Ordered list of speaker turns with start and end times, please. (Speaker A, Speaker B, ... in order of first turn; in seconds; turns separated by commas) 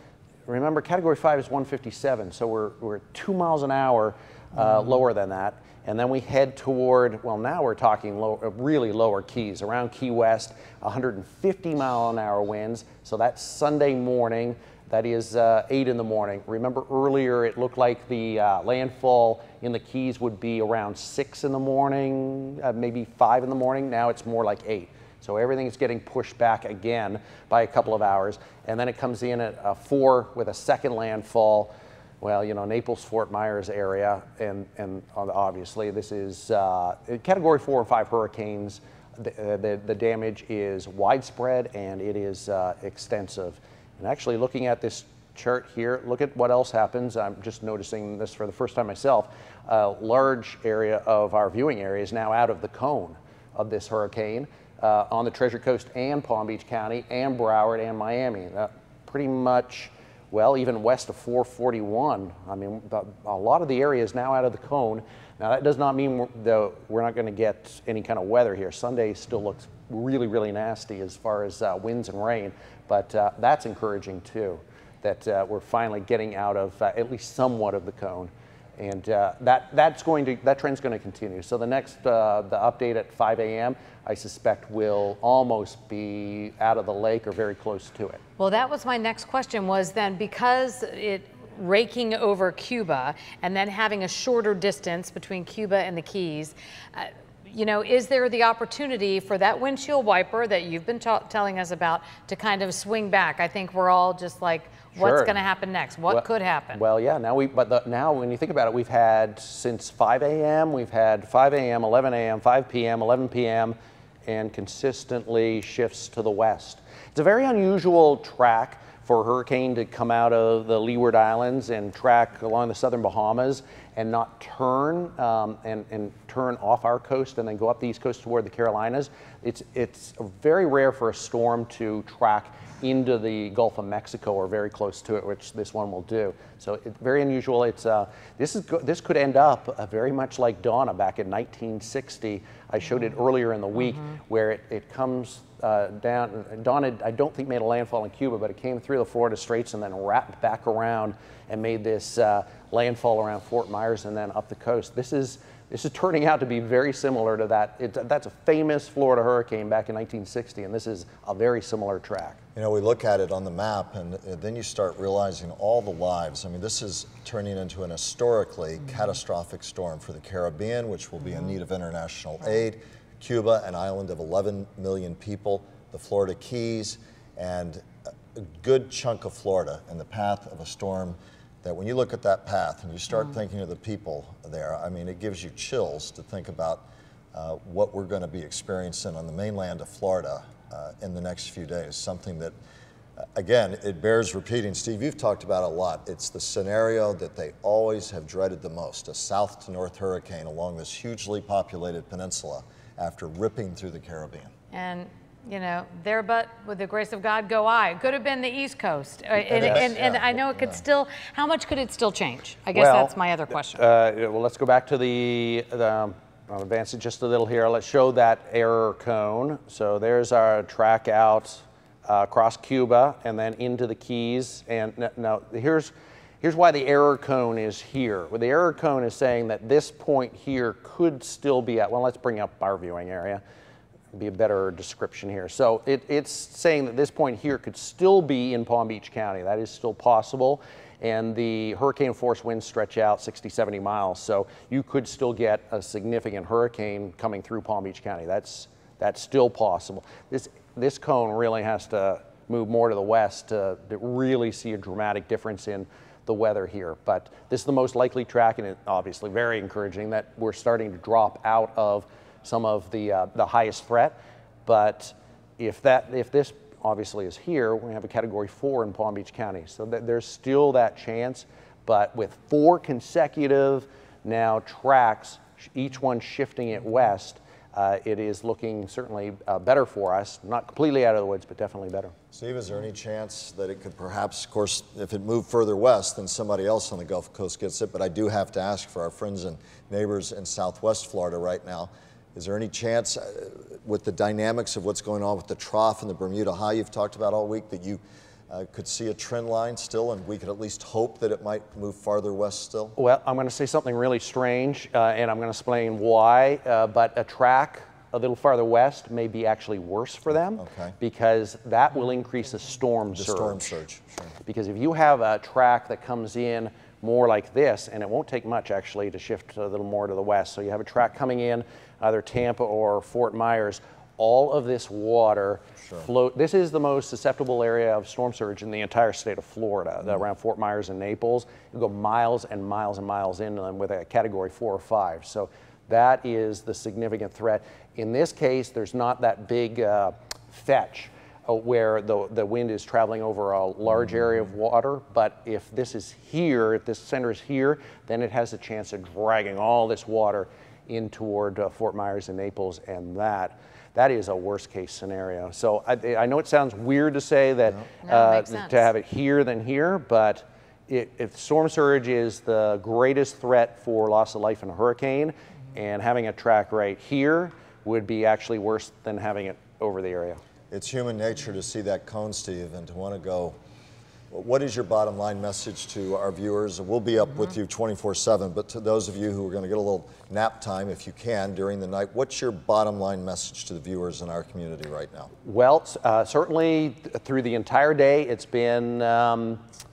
Speaker A: 0.5-88.2, Speaker B: 88.4-106.8, Speaker A: 104.9-105.4, Speaker A: 106.1-113.7, Speaker A: 114.2-162.4, Speaker C: 162.6-192.5, Speaker C: 193.3-204.5, Speaker B: 204.7-213.8, Speaker C: 209.4-210.8, Speaker A: 209.6-209.9, Speaker A: 212.7-213.1, Speaker A: 213.7-233.4, Speaker A: 234.1-282.1, Speaker C: 282.3-303.0, Speaker A: 303.0-313.7, Speaker C: 310.6-310.9, Speaker C: 313.1-314.3, Speaker A: 314.4-370.4, Speaker B: 358.0-358.9, Speaker C: 370.7-373.6, Speaker C: 374.3-385.3, Speaker A: 385.4-389.6